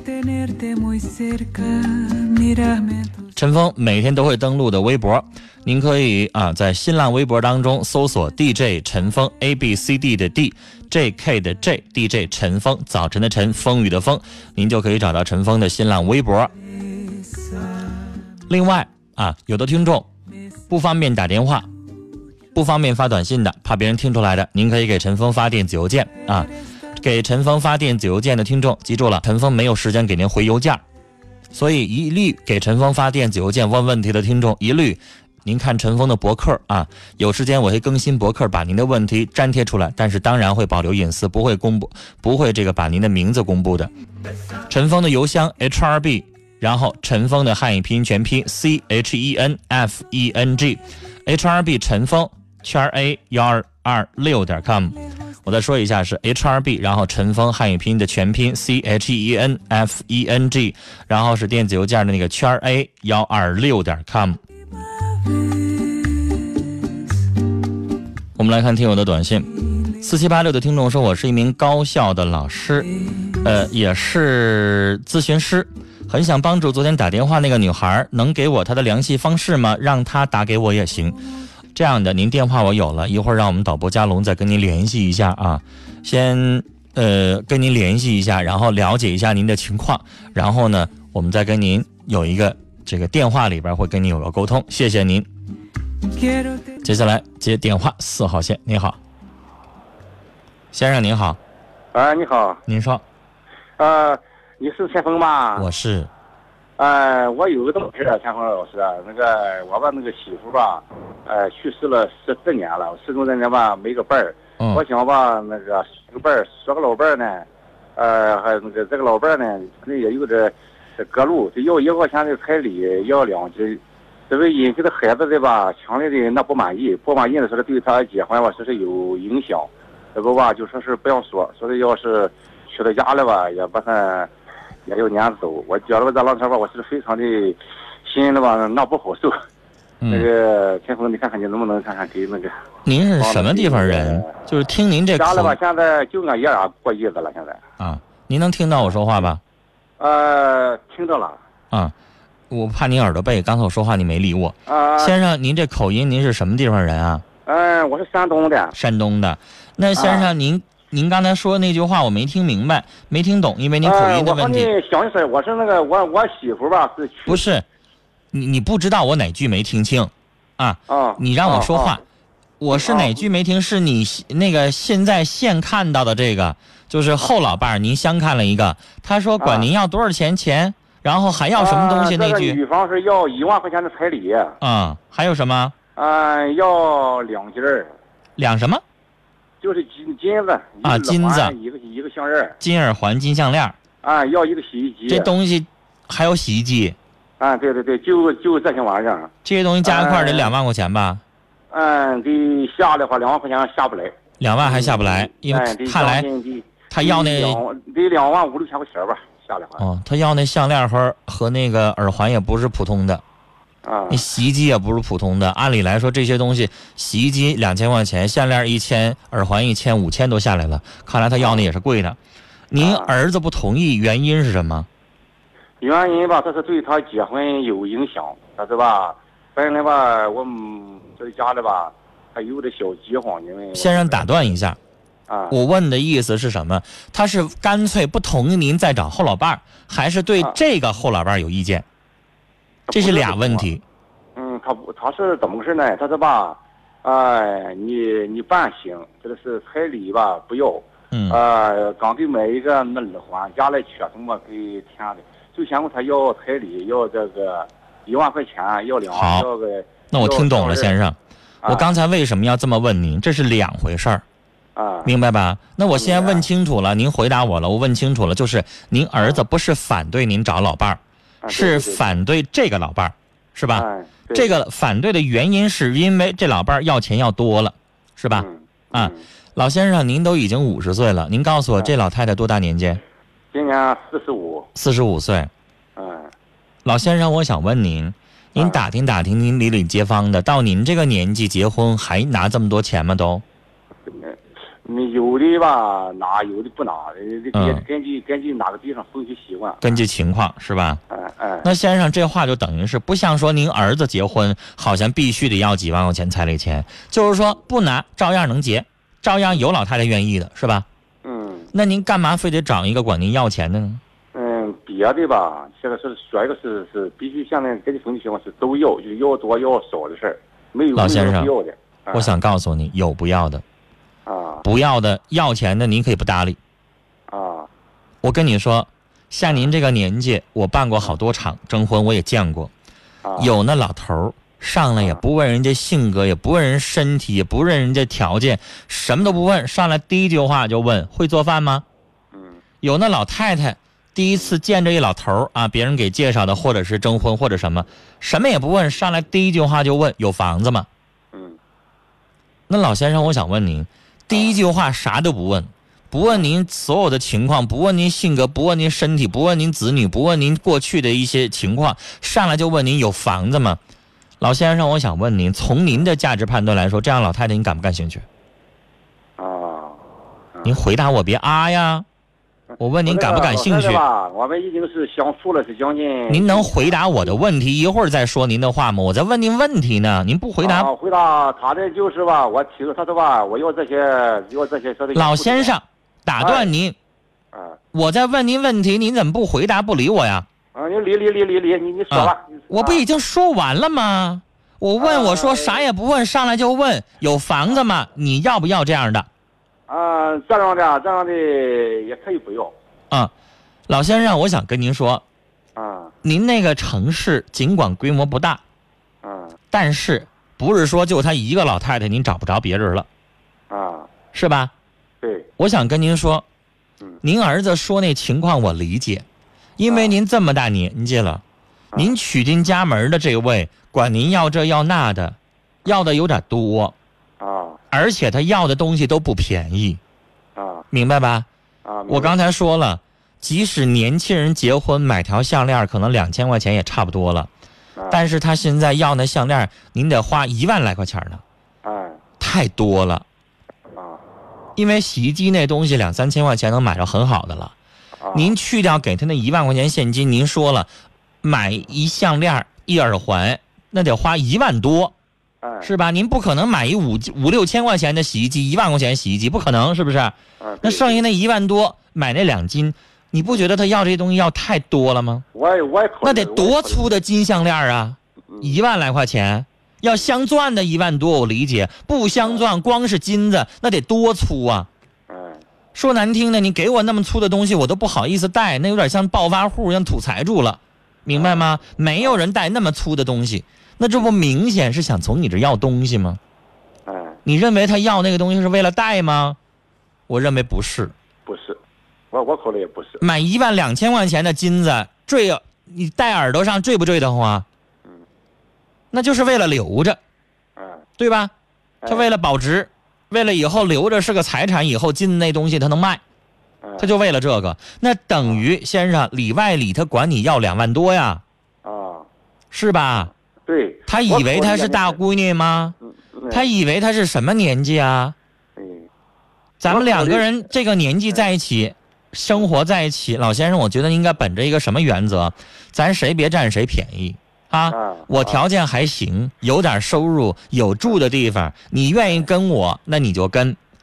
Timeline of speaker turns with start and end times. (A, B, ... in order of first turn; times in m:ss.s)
0:00.2-0:16.5 A
0:18.5-0:20.1 A
0:20.7-0:21.7 A
0:22.6-0:30.8 A
0:31.5-0:43.9 A
0:44.7-1:04.4 A
1:08.4-1:21.2 A
1:21.8-1:35.3 A
1:36.8-1:39.0 A
1:40.7-1:41.4 A
1:41.9-1:42.6 B
1:42.7-1:43.0 A
1:43.8-1:45.7 B
1:45.6-1:46.1 A
1:46.8-2:14.3 B
2:14.9-2:19.4 B
2:20.0-2:20.3 A
2:20.1-2:22.5 B
2:22.9-2:25.6 A
2:23.2-2:24.3 B
2:25.2-2:27.6 B
2:27.8-2:29.4 A
2:30.0-2:31.4 B
2:32.5-2:37.2 A
2:34.7-2:35.2 B
2:37.5-2:38.8 B
2:38.7-2:44.7 A
2:40.0-2:40.3 B
2:43.8-2:47.4 B
2:47.3-2:47.6 A
2:48.3-2:52.0 A
2:50.9-2:52.0 B
2:52.6-3:02.6 A
2:52.7-2:53.2 B
2:59.4-2:59.7 B
3:01.6-3:04.6 B
3:04.6-3:05.7 A
3:06.0-3:07.9 B
3:08.4-3:08.8 A
3:09.6-3:12.6 B
3:10.8-3:11.6 A
3:12.6-3:13.8 A
3:14.0-3:15.3 B
3:15.1-3:17.0 A
3:17.4-3:19.3 B
3:19.4-3:21.2 A
3:19.8-3:20.5 B
3:21.7-3:29.8 B
3:24.4-3:26.3 A
3:26.9-3:27.6 A
3:29.8-3:33.2 A
3:33.8-3:34.3 B
3:34.1-3:42.2 A
3:41.4-3:41.6 B
3:42.7-3:44.9 A
3:42.8-3:43.1 B
3:45.8-3:54.5 B
3:53.8-3:54.8 A
3:55.3-3:55.6 B
3:55.5-4:01.8 A
4:02.9-4:03.7 B
4:02.9-4:03.8 A
4:04.4-4:21.0 B
4:11.1-4:11.4 A
4:19.1-4:19.5 A
4:20.1-4:24.2 A
4:21.6-4:21.9 B
4:24.8-4:25.1 B
4:25.0-4:43.0 A
4:25.9-4:26.5 B
4:31.4-4:32.2 B
4:33.7-4:34.5 B
4:38.3-4:39.2 B
4:43.5-4:44.7 B
4:44.8-4:45.5 A
4:46.0-4:46.3 B
4:46.8-4:53.4 A
4:48.6-4:48.8 B
4:54.2-4:59.9 B
4:57.5-4:57.8 A
4:59.8-5:01.0 A
5:01.1-5:01.7 B
5:01.6-5:10.9 A
5:11.2-5:11.7 B
5:11.7-5:14.0 A
5:14.3-5:22.4 B
5:21.0-5:21.5 A
5:22.1-5:23.6 A
5:24.3-5:24.6 B
5:24.6-5:26.6 A
5:27.3-5:27.7 B
5:28.2-5:32.7 A
5:33.2-5:33.5 B
5:33.4-5:41.8 A
5:42.3-5:42.6 B
5:42.8-5:50.9 A
5:51.3-5:51.6 B
5:52.7-6:03.8 A
6:04.4-6:08.3 A
6:09.4-6:10.0 B
6:10.6-6:12.1 A
6:12.7-6:17.3 B
6:12.8-6:14.0 A
6:16.3-6:20.9 A
6:20.6-6:25.8 B
6:25.1-6:27.0 A
6:26.4-6:26.7 B
6:27.5-6:27.8 B
6:27.9-6:30.5 A
6:30.8-6:33.0 B
6:32.1-6:39.3 A
6:35.0-6:35.9 B
6:39.9-6:42.7 B
6:43.9-6:45.2 A
6:45.8-6:46.1 B
6:46.2-6:48.6 A
6:49.2-6:49.6 B
6:49.7-6:53.1 A
6:53.7-6:54.1 B
6:54.3-6:54.7 A
6:55.2-6:55.5 B
6:55.6-6:56.4 A
6:57.2-6:59.3 A
6:59.8-7:01.4 A
6:59.9-7:00.2 B
7:02.0-7:07.0 A
7:07.4-7:07.8 B
7:07.9-7:10.0 A
7:10.6-7:10.8 B
7:10.9-7:11.5 A
7:11.8-7:12.3 B
7:12.1-7:17.5 A
7:18.0-7:18.2 B
7:18.1-7:21.4 A
7:21.8-7:22.2 B
7:22.4-7:23.2 A
7:24.0-7:24.2 B
7:24.8-7:27.7 A
7:28.2-7:28.6 B
7:28.3-7:30.9 A
7:31.4-7:35.1 A
7:35.6-7:35.9 B
7:35.8-7:45.4 A
7:40.6-7:41.2 B
7:45.5-7:47.1 B
7:46.2-7:54.9 A
7:48.5-7:48.8 B
7:52.3-7:52.6 B
7:55.3-7:55.6 B
7:55.9-8:06.4 A
8:01.3-8:01.6 B
8:07.1-8:07.4 B
8:07.4-8:09.6 A
8:10.3-8:11.1 A
8:11.5-8:11.8 B
8:12.3-8:13.2 B
8:13.2-8:17.7 A
8:19.1-8:20.2 A
8:20.8-8:21.0 B
8:21.2-8:21.5 A
8:22.1-8:26.2 A
8:26.8-8:27.1 B
8:27.0-8:31.4 A
8:31.8-8:32.3 B
8:32.7-8:33.3 A
8:33.7-8:35.2 B
8:34.1-8:36.0 A
8:36.0-8:36.7 B
8:36.5-8:38.4 A
8:38.8-8:39.1 B
8:39.8-8:53.8 A
8:39.9-8:40.5 B
8:47.9-8:48.6 B